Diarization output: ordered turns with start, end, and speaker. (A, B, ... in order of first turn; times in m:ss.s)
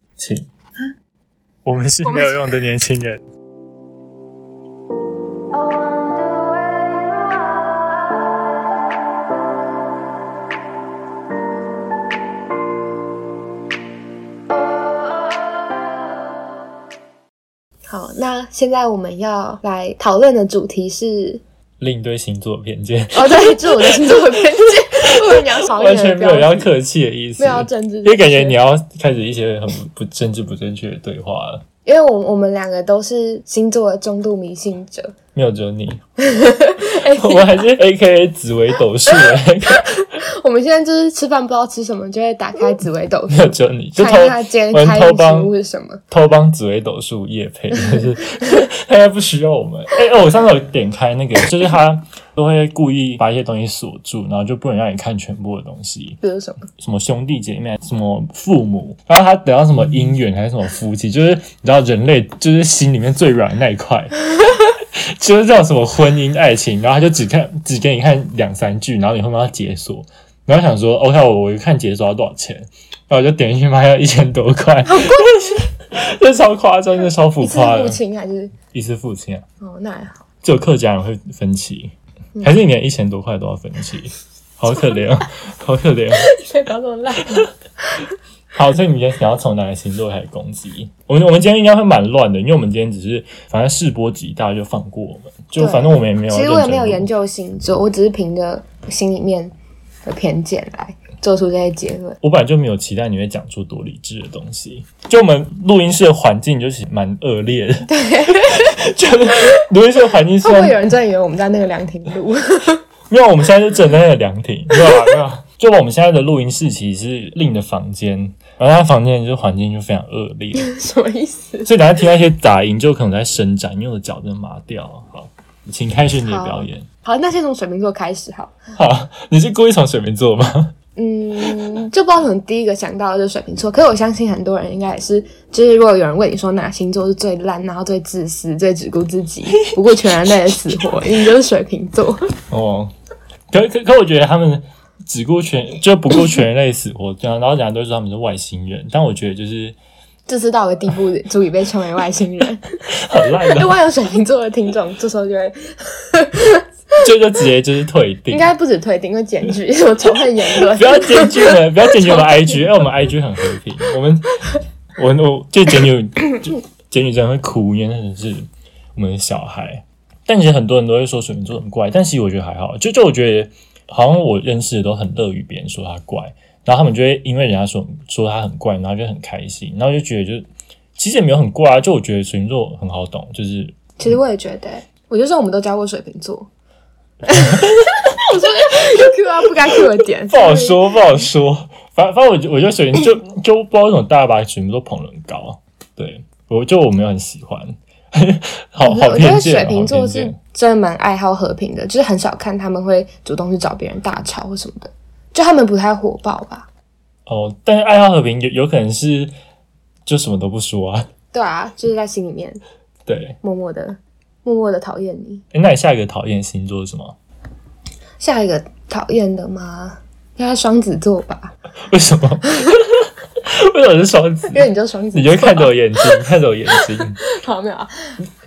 0:00.2-0:00.5 A
0:01.6-0:03.2 A
0:02.0-0:02.5 B
0:17.9-0:21.4 B
0:21.8-0:24.2 A
0:23.1-0:26.7 B
0:25.6-0:31.6 A
0:27.4-0:28.6 B
0:31.8-0:35.1 B
0:35.3-0:36.0 A
0:36.2-0:37.6 B
0:37.1-0:40.0 A
0:40.2-0:46.0 B
0:43.3-0:45.5 A
0:46.1-0:56.2 A
0:47.8-0:48.5 B
0:56.2-0:56.7 B
0:56.8-1:04.2 A
1:05.2-1:18.0 A
1:14.8-1:15.6 B
1:17.4-1:18.6 B
1:18.7-1:19.4 A
1:19.6-1:20.2 B
1:20.4-1:26.3 A
1:26.2-1:28.0 B
1:28.6-1:37.1 A
1:35.6-1:39.5 B
1:40.0-1:42.2 B
1:42.2-1:50.8 A
1:47.9-1:48.8 B
1:50.4-1:52.8 B
1:53.1-2:00.7 A
1:54.8-1:55.1 B
2:00.6-2:01.7 B
2:01.6-2:06.9 A
2:06.3-2:08.6 B
2:08.8-2:10.7 A
2:11.0-2:22.2 B
2:22.5-2:22.9 A
2:23.5-2:29.8 A
2:30.3-2:32.8 B
2:32.9-2:33.8 A
2:33.5-2:36.6 B
2:37.0-2:38.5 A
2:38.3-2:42.2 B
2:40.7-2:44.4 A
2:45.0-3:03.8 A
3:04.0-3:06.5 B
3:07.3-3:11.2 B
3:10.3-3:20.4 A
3:18.8-3:26.7 B
3:27.3-3:29.3 A
3:30.0-3:31.1 A
3:31.3-3:32.6 B
3:33.1-3:33.4 A
3:33.4-3:35.4 B
3:35.5-3:37.2 A
3:38.2-3:41.5 B
3:41.9-3:47.2 A
3:44.5-3:47.9 B